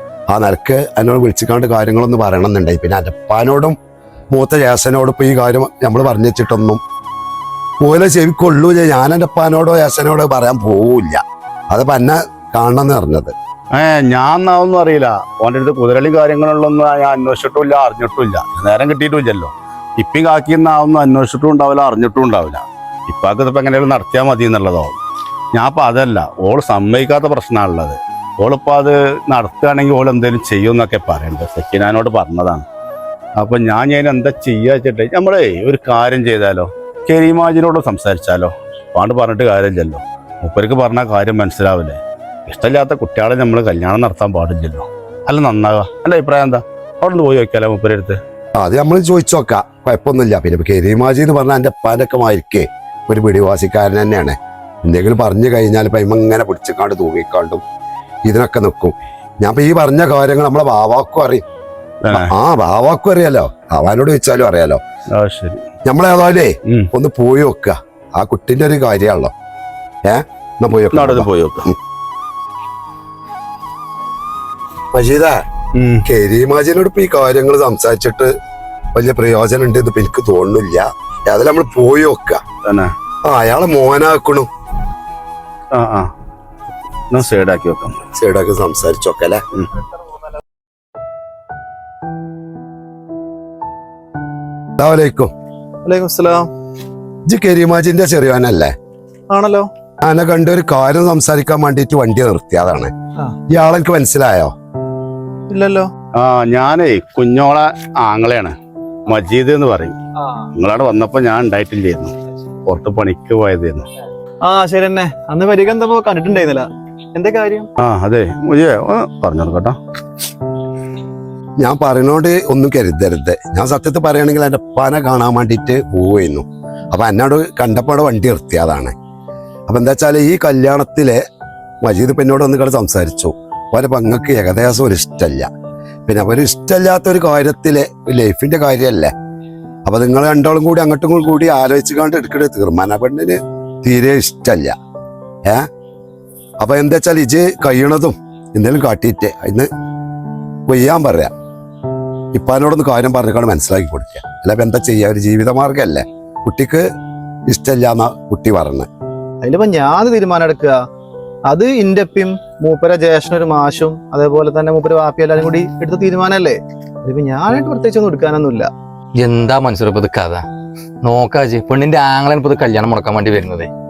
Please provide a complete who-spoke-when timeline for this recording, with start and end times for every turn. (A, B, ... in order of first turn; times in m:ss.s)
0:00.3-0:03.8 A
0:04.3-0:06.8 A
0:07.8-0:13.3 A
0:13.7-0:24.9 B
0:25.5-0:32.6 B
0:33.4-0:48.2 B
0:48.6-0:57.6 A
0:58.2-1:01.4 A
1:02.0-1:02.3 B
1:02.1-1:04.8 A
1:05.1-1:05.6 B
1:05.8-1:09.3 A
1:10.0-1:11.7 A
1:10.9-1:11.7 B
1:14.9-1:15.4 A
1:15.8-1:16.0 B
1:16.0-1:18.3 A
1:18.9-1:22.4 A
1:22.6-1:22.9 B
1:23.2-1:24.5 A
1:25.7-1:26.1 B
1:27.1-1:28.0 B
1:28.1-1:29.4 A
1:34.8-1:35.3 A
1:35.8-1:36.5 C
1:37.3-1:38.7 A
1:39.3-1:39.7 C
1:40.0-1:42.9 A
1:43.5-1:44.5 A
1:45.5-1:45.9 C
1:46.1-1:48.6 B
1:49.1-1:50.0 B
1:50.5-1:52.1 B
1:52.6-1:53.9 B
1:54.4-1:57.7 C
1:57.8-1:59.8 B
2:01.6-2:08.9 A
2:09.7-2:11.2 A
2:11.8-2:15.5 A
2:16.1-2:19.1 A
2:19.9-2:24.7 A
2:26.6-2:29.7 A
2:30.7-2:31.3 A
2:32.3-2:36.9 A
2:37.5-2:38.9 A
2:39.4-2:40.8 C
2:41.5-2:48.7 C
2:49.2-2:50.4 D
2:51.0-2:53.7 D